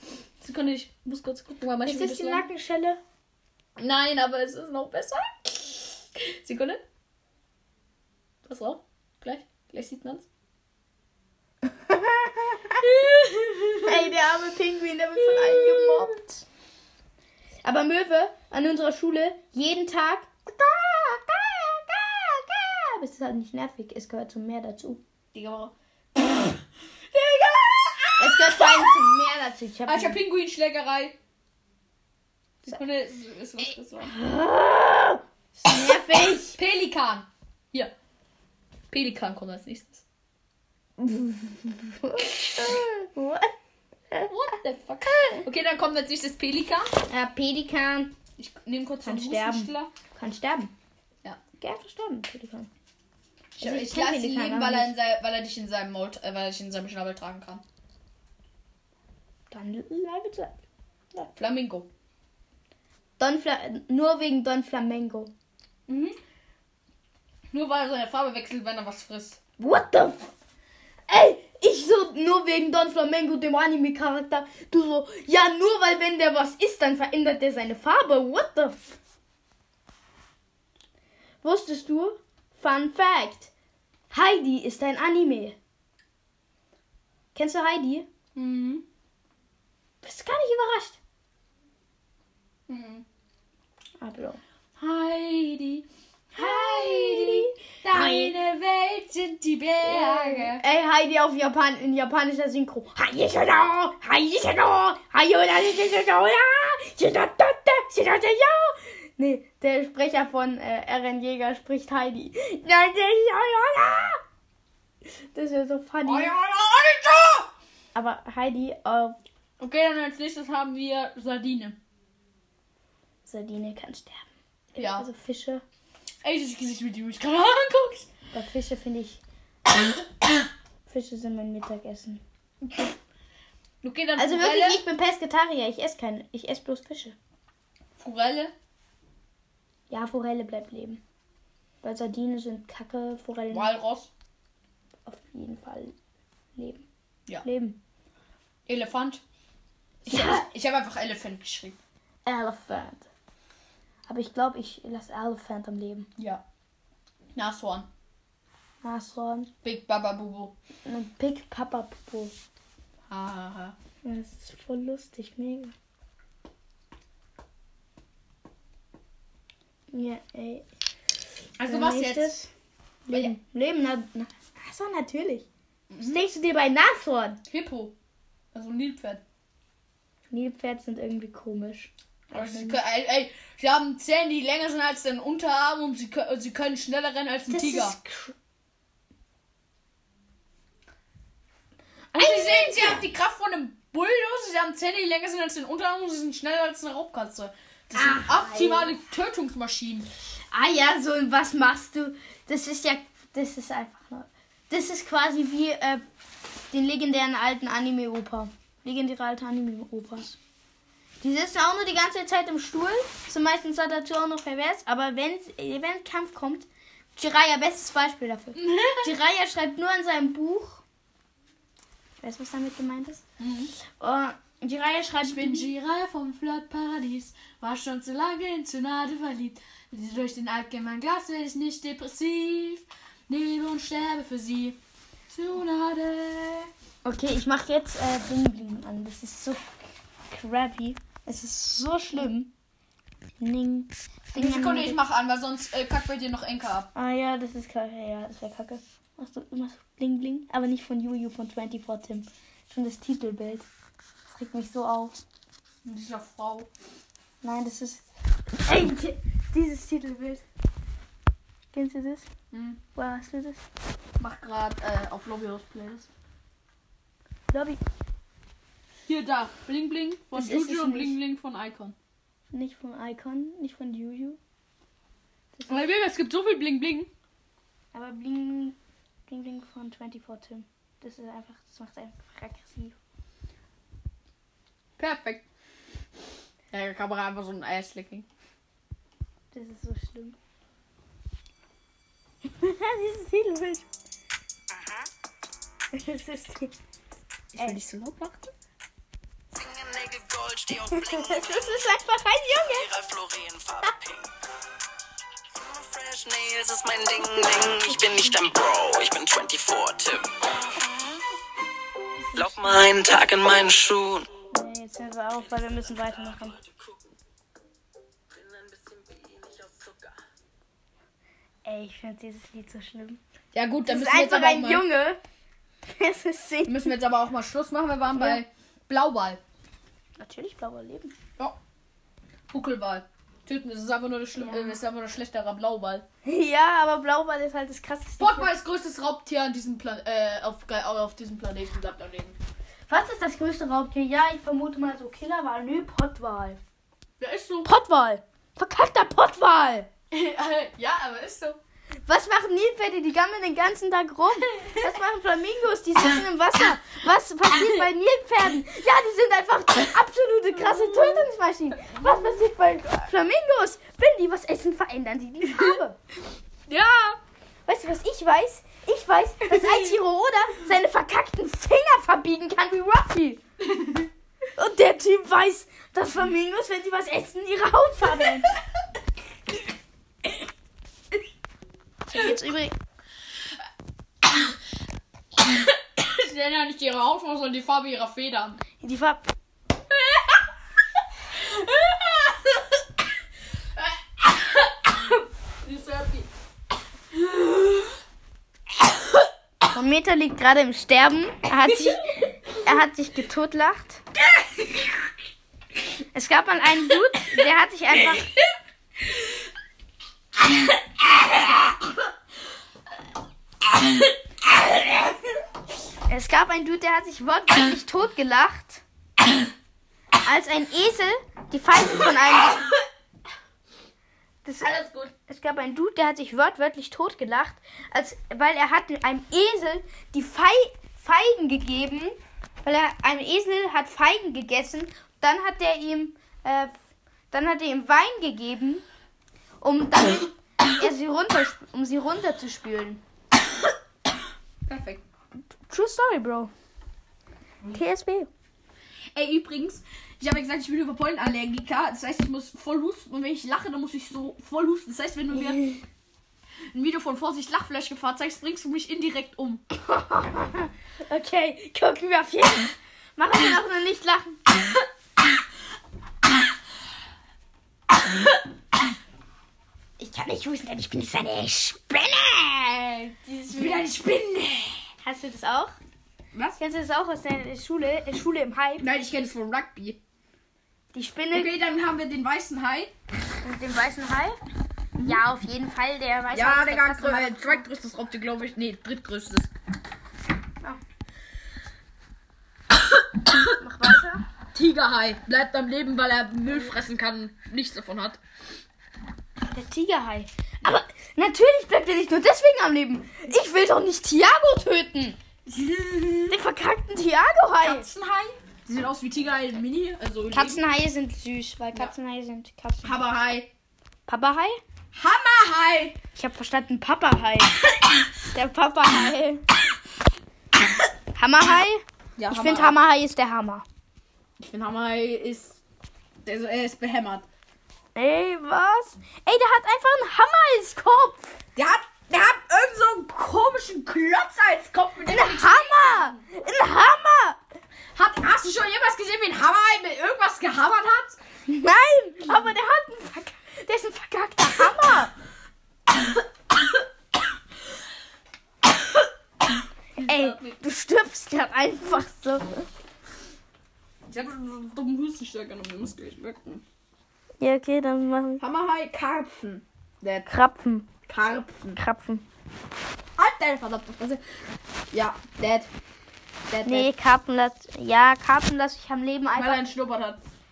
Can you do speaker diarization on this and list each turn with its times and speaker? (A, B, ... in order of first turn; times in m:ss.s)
0:00.4-0:02.5 A
0:01.8-0:03.0 B
0:03.8-0:06.8 A
0:08.4-0:10.3 A
0:11.6-0:12.9 B
0:12.8-0:14.1 A
0:13.8-0:16.4 B
0:15.2-0:16.2 A
0:17.6-0:25.0 B
0:25.3-0:29.0 A
0:28.2-0:30.2 B
0:29.9-0:31.2 A
0:32.6-0:34.2 A
0:34.1-0:36.6 B
0:35.6-0:36.0 A
0:36.5-0:37.9 A
0:38.9-0:40.0 A
0:41.0-0:43.5 B
0:44.3-0:46.9 A
0:47.1-0:48.2 B
0:48.4-0:49.9 A
0:49.0-0:50.7 B
0:51.6-0:52.7 B
0:53.6-0:57.6 A
0:53.6-0:54.9 B
0:59.5-1:00.6 B
1:01.3-1:01.9 A
1:03.2-1:05.3 B
1:05.9-1:06.2 A
1:07.5-1:09.4 A
1:09.6-1:10.3 B
1:11.1-1:19.0 B
1:21.4-1:23.5 B
1:24.1-1:25.6 B
1:27.4-1:28.1 B
1:28.4-1:28.8 A
1:30.0-1:31.0 B
1:32.7-1:33.0 A
1:34.0-1:34.4 B
1:34.8-1:40.6 A
1:36.4-1:38.3 B
1:39.8-1:54.2 B
1:55.3-1:56.4 B
1:56.0-1:57.5 A
1:58.0-1:59.2 B
1:59.6-2:01.8 A
2:03.2-2:05.6 B
2:04.8-2:05.1 A
2:06.2-2:08.1 A
2:08.3-2:09.2 B
2:10.9-2:12.2 B
2:12.6-2:12.9 A
2:13.8-2:14.8 A
2:14.2-2:17.2 B
2:18.0-2:18.5 A
2:19.9-2:21.0 B
2:21.8-2:23.7 B
2:23.5-2:24.1 A
2:25.1-2:26.0 B
2:26.6-2:26.9 B
2:27.4-2:27.8 B
2:28.7-2:29.2 A
2:30.0-2:31.8 A
2:30.1-2:30.5 B
2:32.3-2:33.1 B
2:34.1-2:36.1 B
2:36.2-2:36.4 A
2:37.4-2:37.9 A
2:38.8-2:39.5 B
2:39.6-2:40.6 A
2:40.8-2:42.4 B
2:43.1-2:43.8 A
2:44.0-2:45.7 B
2:49.9-2:50.7 B
2:51.6-2:52.4 A
2:51.6-2:52.5 B
2:53.1-2:55.5 B
2:53.1-2:53.4 A
2:55.9-2:56.2 A
2:56.0-2:57.4 B
2:57.5-2:58.0 A
2:58.5-2:59.2 A
3:00.3-3:02.8 B
3:02.3-3:08.0 A
3:07.5-3:08.4 B
3:12.1-3:13.0 B
3:12.2-3:20.1 A
3:17.9-3:18.9 B
3:20.5-3:26.0 B
3:26.7-3:30.4 B
3:31.2-3:40.8 B
3:38.6-3:39.1 A
3:42.2-3:43.2 B
3:43.4-3:43.7 A
3:44.0-3:45.7 B
3:45.2-3:54.8 A
3:55.3-3:56.7 A
3:57.0-3:59.6 B
4:00.3-4:02.5 B
4:03.4-4:05.0 B
4:04.3-4:06.9 A
4:07.0-4:13.7 B
4:14.3-4:15.2 B
4:15.8-4:16.7 A
4:17.4-4:18.0 B
4:18.6-4:20.4 B
4:21.7-4:22.3 B
4:22.5-4:22.8 A
4:23.0-4:23.6 B
4:24.2-4:26.1 A
4:27.5-4:27.8 B
4:29.1-4:32.0 A
4:30.4-4:31.2 B
4:32.5-4:34.4 B
4:35.6-4:35.9 B
4:35.7-4:37.1 A
4:37.9-4:43.0 B
4:45.0-4:45.5 A
4:46.7-4:48.3 A
4:49.5-4:50.4 B
4:52.4-4:53.8 B
4:54.8-4:55.0 C
4:55.9-4:56.7 B
4:57.5-4:58.5 A
4:59.5-5:01.9 C
5:00.9-5:02.9 B
5:02.7-5:04.3 C
5:05.6-5:11.0 C
5:12.3-5:14.3 C
5:14.5-5:16.6 B
5:18.5-5:20.0 C
5:21.6-5:23.2 B
5:23.5-5:24.8 A
5:23.8-5:25.2 B
5:25.9-5:27.0 B
5:26.6-5:29.4 A
5:28.1-5:28.4 B
5:30.2-5:31.1 B
5:32.5-5:36.0 A
5:34.4-5:34.8 B
5:36.2-5:38.5 B
5:38.2-5:42.4 A
5:42.9-5:46.6 B
5:47.2-5:47.7 A
5:47.6-5:49.9 B
5:50.1-5:51.6 A
5:52.1-6:06.0 B
6:00.6-6:01.3 A
6:05.5-6:05.8 A
6:06.7-6:07.2 A
6:07.7-6:13.4 B
6:09.5-6:10.0 A
6:14.6-6:18.5 B
6:22.1-6:22.8 B
6:24.3-6:24.5 A
6:25.4-6:28.6 A
6:28.8-6:29.2 B
6:29.9-6:30.4 A
6:31.3-6:32.8 A
6:33.8-6:36.3 A
6:37.1-6:38.0 A
6:39.7-6:44.0 B
6:44.3-6:44.9 A
6:46.1-6:48.3 B
6:56.1-6:58.8 B
7:00.2-7:02.7 B
7:04.4-7:16.7 B
7:04.6-7:05.1 A
7:17.3-7:18.8 B
7:19.6-7:23.0 B
7:24.7-7:25.0 A
7:25.7-7:26.5 B
7:27.7-7:28.3 B
7:29.1-7:35.6 A
7:35.3-7:35.8 B
7:36.7-7:39.6 A
7:39.8-7:44.5 B
7:50.0-7:53.8 B
7:53.5-7:54.8 A
7:55.0-7:55.8 B
7:56.6-7:58.9 B
7:58.8-8:00.0 A
8:00.9-8:01.5 B
8:01.3-8:02.9 A
8:03.4-8:04.4 B
8:05.0-8:07.7 B
8:06.3-8:09.5 A
8:13.4-8:14.2 B
8:14.5-8:18.2 A
8:19.5-8:25.2 B
8:25.5-8:26.4 A
8:26.3-8:27.9 B
8:27.6-8:30.6 A
8:30.3-8:33.0 B
8:32.8-8:33.5 A
8:34.1-8:34.6 B
8:34.9-8:36.0 A
8:36.2-8:37.6 B
8:38.2-8:39.4 B
8:41.2-8:43.6 B
8:42.2-8:42.8 A
8:44.4-8:45.6 A
8:46.2-8:47.3 A
8:48.0-8:51.4 B
8:51.6-8:56.2 A
8:55.1-8:57.4 B
8:58.0-9:01.2 A
9:01.5-9:05.1 B
9:10.0-9:10.6 A
9:10.0-9:12.7 B
9:14.1-9:16.6 A
9:17.4-9:18.4 B
9:18.4-9:20.3 A
9:20.3-9:20.9 B
9:21.1-9:21.8 A
9:21.8-9:22.3 B
9:23.2-9:24.2 A
9:24.9-9:25.7 A
9:26.5-9:26.9 A
9:26.6-9:29.6 B
9:29.4-9:30.2 A